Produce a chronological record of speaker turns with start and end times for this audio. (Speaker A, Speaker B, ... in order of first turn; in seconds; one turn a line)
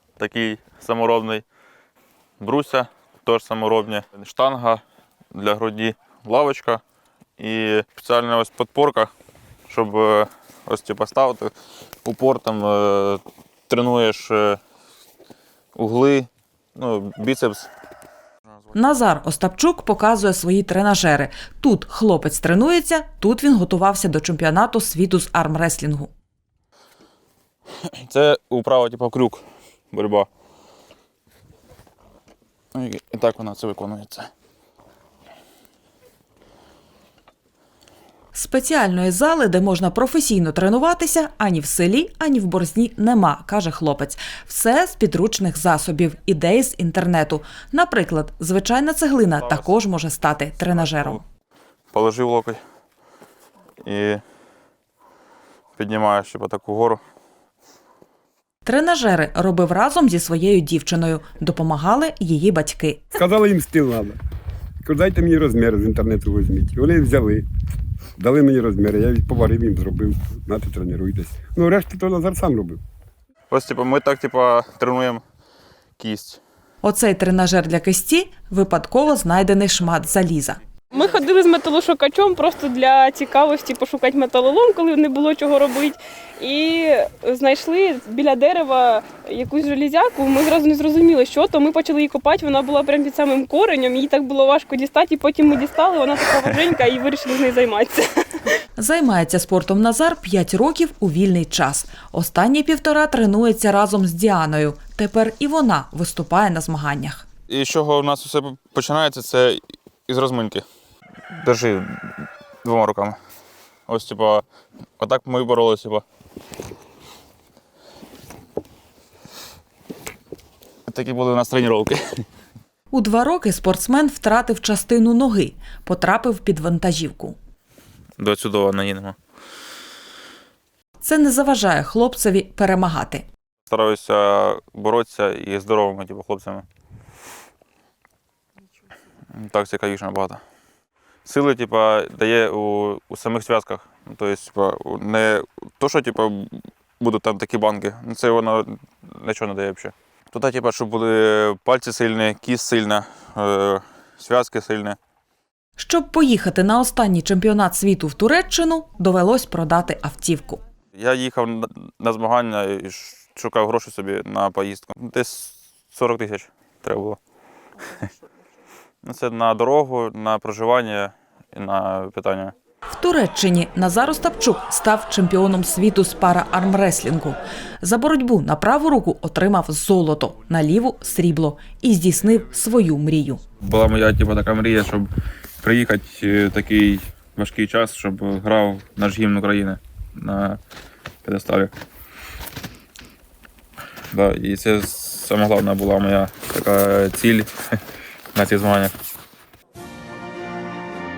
Speaker A: 0.2-1.4
Speaker A: 2.4-6.8
Speaker A: 7.4-9.1
Speaker A: 9.7-14.6
Speaker A: 15.8-17.7
Speaker B: 18.7-26.1
Speaker A: 27.9-30.3
Speaker A: 32.7-34.3
Speaker B: 38.4-51.2
Speaker A: 49.4-49.9
Speaker A: 50.6-51.2
Speaker A: 51.9-52.6
Speaker A: 53.8-54.2
Speaker A: 55.8-57.0
Speaker B: 58.6-63.0
Speaker C: 63.1-64.2
Speaker C: 64.8-67.5
Speaker C: 68.2-72.8
Speaker A: 73.5-75.2
Speaker A: 76.0-76.4
Speaker B: 76.8-80.6
Speaker D: 80.9-98.6
Speaker B: 98.8-107.3
Speaker A: 107.5-110.7
Speaker A: 111.3-113.2
Speaker A: 113.9-114.5
Speaker A: 115.0-116.0
Speaker A: 120.9-122.2
Speaker B: 122.9-127.4
Speaker A: 128.2-129.2
Speaker B: 131.0-133.2
Speaker A: 133.7-136.7
Speaker A: 139.3-140.4
Speaker A: 141.2-155.0
Speaker B: 155.8-160.6
Speaker A: 160.9-167.2
Speaker A: 169.0-172.5
Speaker B: 172.9-183.4
Speaker A: 183.6-190.6
Speaker A: 191.2-191.7
Speaker A: 194.1-197.5
Speaker A: 198.3-198.9